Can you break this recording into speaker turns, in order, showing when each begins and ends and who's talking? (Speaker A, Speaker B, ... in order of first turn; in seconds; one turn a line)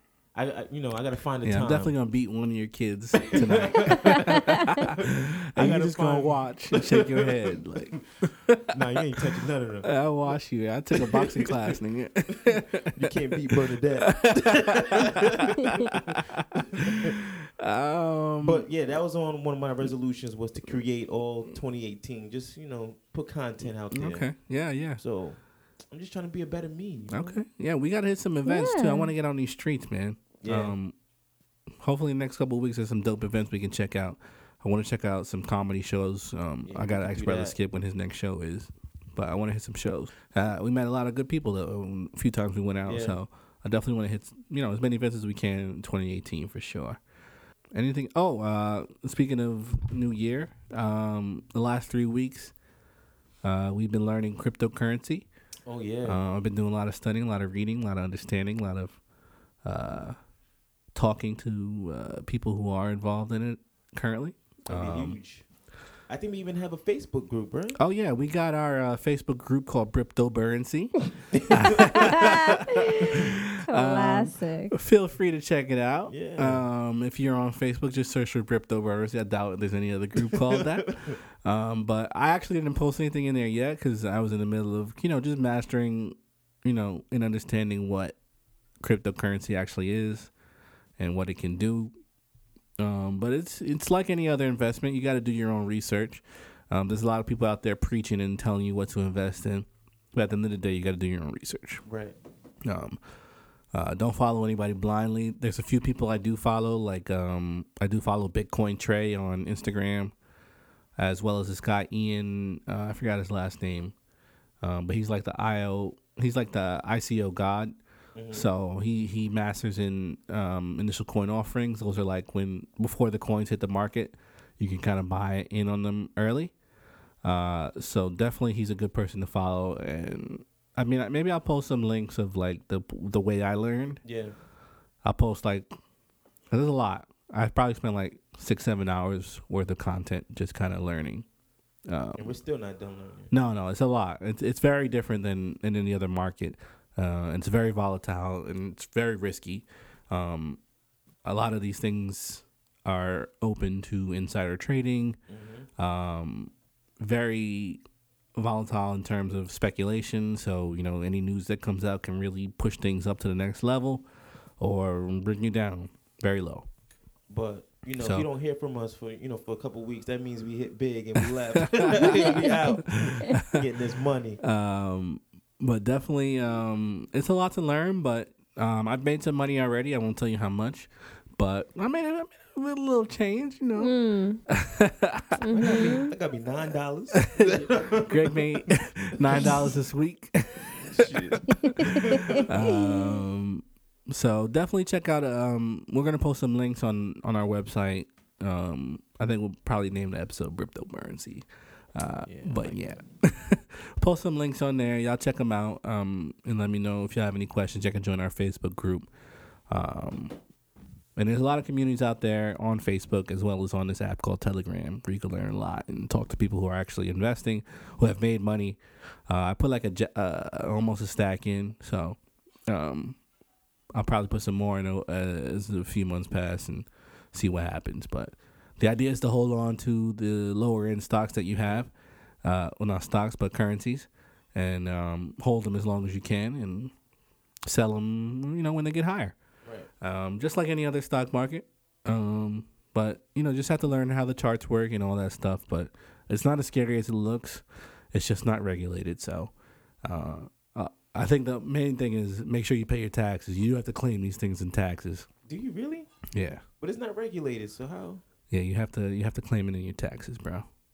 Speaker A: 0.3-1.9
Speaker B: 1.4-8.7
Speaker A: 3.3-7.3
Speaker C: 3.9-4.8
Speaker A: 8.7-9.9
Speaker B: 9.8-18.7
Speaker A: 10.9-11.7
Speaker A: 12.9-15.8
Speaker A: 16.7-17.1
Speaker A: 18.4-24.3
Speaker B: 23.9-25.0
Speaker A: 25.0-25.4
Speaker A: 25.9-27.4
Speaker B: 27.1-30.9
Speaker C: 28.4-29.1
Speaker A: 30.4-30.8
Speaker B: 31.8-47.0
Speaker A: 36.6-37.6
Speaker A: 42.9-43.2
Speaker B: 47.7-52.5
Speaker B: 53.4-55.3
Speaker A: 55.7-56.2
Speaker B: 56.0-59.0
Speaker B: 59.6-60.2
Speaker B: 60.9-65.2
Speaker A: 64.7-65.5
Speaker A: 66.1-67.8
Speaker B: 67.8-88.2
Speaker A: 71.4-72.3
Speaker C: 71.8-74.8
Speaker A: 76.1-76.7
Speaker A: 80.2-81.2
Speaker B: 88.8-90.3
Speaker B: 91.0-91.9
Speaker B: 92.8-101.8
Speaker A: 101.9-102.2
Speaker B: 102.7-103.0
Speaker B: 103.7-110.1
Speaker B: 111.0-113.9
Speaker B: 114.6-117.8
Speaker A: 118.2-118.5
Speaker B: 118.3-126.5
Speaker B: 127.2-134.0
Speaker A: 134.0-134.3
Speaker B: 135.0-135.7
Speaker B: 136.5-141.3
Speaker B: 141.9-142.3
Speaker A: 142.2-143.3
Speaker B: 143.3-150.6
Speaker B: 151.2-155.2
Speaker A: 155.3-155.7
Speaker B: 155.8-157.8
Speaker B: 158.3-164.1
Speaker B: 164.6-166.7
Speaker A: 167.3-174.4
Speaker B: 168.0-168.3
Speaker B: 171.2-173.6
Speaker C: 172.1-172.6
Speaker B: 174.4-183.9
Speaker C: 183.8-184.4
Speaker B: 184.5-185.9
Speaker C: 185.4-186.1
Speaker A: 185.5-188.7
Speaker B: 187.2-209.1
Speaker A: 190.9-192.5
Speaker C: 191.5-193.2
Speaker A: 202.3-202.9
Speaker B: 209.7-210.3
Speaker B: 211.2-223.2
Speaker B: 223.9-231.9
Speaker B: 232.4-236.9
Speaker B: 237.7-239.4
Speaker B: 240.0-249.5
Speaker B: 250.1-255.3
Speaker A: 255.5-256.1
Speaker B: 256.3-256.6
Speaker A: 256.8-258.2
Speaker B: 258.5-260.7